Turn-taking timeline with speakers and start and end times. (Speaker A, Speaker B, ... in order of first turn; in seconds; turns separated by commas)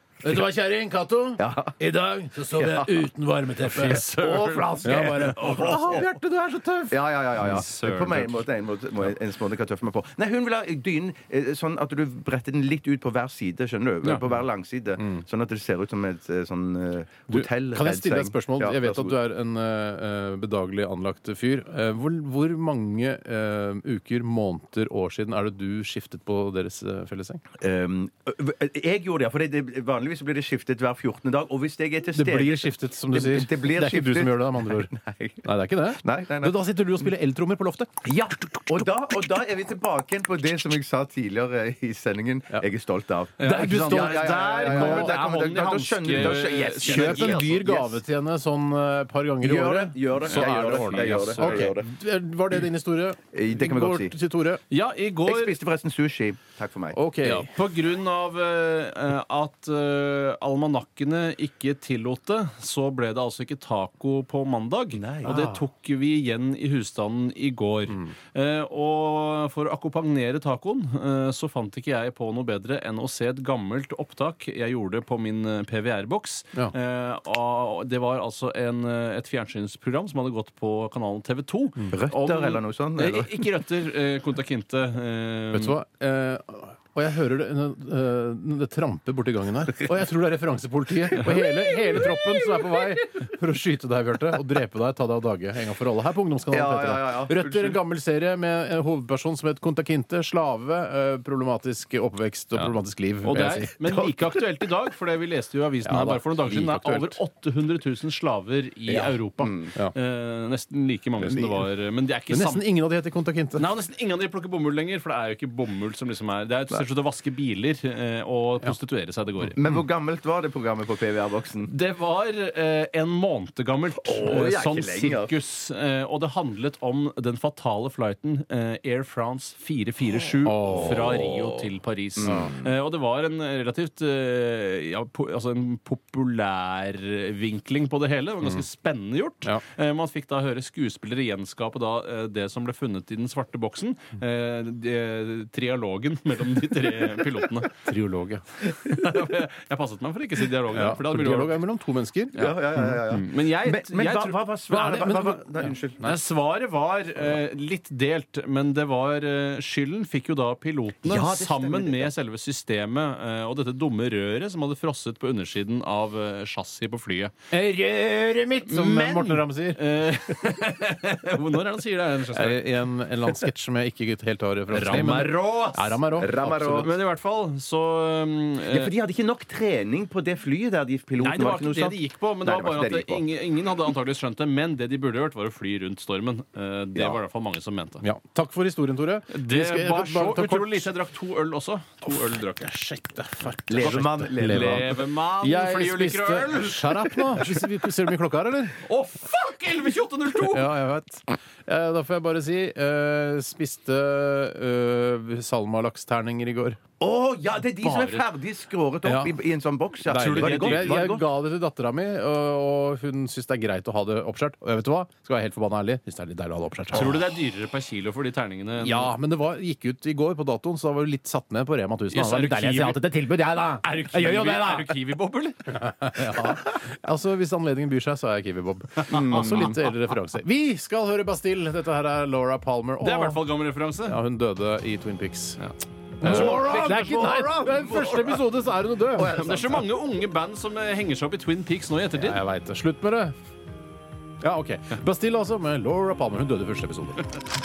Speaker A: 0.2-7.6, Speaker B: 1.4-1.8, Speaker B: 2.5-4.0, Speaker C: 3.6-6.0, Speaker B: 4.6-6.0, Speaker B: 6.9-19.2, Speaker C: 7.4-8.4, Speaker A: 17.3-27.4, Speaker B: 27.6-37.1, Speaker A: 32.1-34.9, Speaker A: 35.4-37.9, Speaker B: 38.0-48.0, Speaker A: 43.4-45.2, Speaker C: 43.4-47.6, Speaker A: 46.8-54.6, Speaker B: 49.4-51.9, Speaker C: 50.3-51.6, Speaker B: 53.3-54.2, Speaker C: 54.7-55.5, Speaker B: 55.2-57.0, Speaker A: 56.9-57.5, Speaker C: 57.2-85.8, Speaker B: 64.9-65.6, Speaker B: 81.9-83.5, Speaker A: 85.5-103.8, Speaker B: 96.5-97.8, Speaker C: 102.5-112.6, Speaker A: 105.8-107.2, Speaker B: 108.9-109.7, Speaker A: 111.2-111.7, Speaker A: 112.3-113.7, Speaker C: 113.6-119.7, Speaker B: 119.5-121.7, Speaker C: 121.7-147.8, Speaker B: 124.0-125.3, Speaker A: 130.4-131.1, Speaker B: 132.2-132.6, Speaker A: 132.2-132.6, Speaker A: 147.8-148.4, Speaker C: 148.6-151.6, Speaker A: 150.7-153.0, Speaker B: 152.3-156.1, Speaker C: 153.1-154.4, Speaker A: 154.7-156.2, Speaker C: 156.0-167.3, Speaker B: 161.1-162.1, Speaker A: 167.5-169.8, Speaker C: 168.7-172.7, Speaker A: 172.3-176.9, Speaker C: 174.7-176.1, Speaker B: 176.2-176.9, Speaker C: 176.7-178.9, Speaker B: 178.7-183.2, Speaker C: 181.2-188.0, Speaker A: 188.0-190.9, Speaker C: 189.3-192.7, Speaker A: 192.6-198.8, Speaker B: 193.7-194.9, Speaker C: 193.8-197.9, Speaker C: 198.8-200.8, Speaker A: 200.5-206.8, Speaker B: 207.0-211.3, Speaker C: 207.8-208.2, Speaker A: 209.0-209.4, Speaker A: 210.1-217.3, Speaker C: 210.2-211.1, Speaker C: 216.9-219.2, Speaker A: 218.8-224.9, Speaker C: 222.1-223.1, Speaker C: 223.8-226.6, Speaker A: 225.7-233.4, Speaker C: 229.0-229.9, Speaker B: 229.1-229.7, Speaker C: 233.0-234.2, Speaker A: 234.1-235.6, Speaker C: 235.6-237.0, Speaker B: 236.2-238.4, Speaker A: 236.2-239.3, Speaker B: 239.1-239.9, Speaker C: 239.3-242.4, Speaker A: 242.2-243.3, Speaker A: 244.4-247.3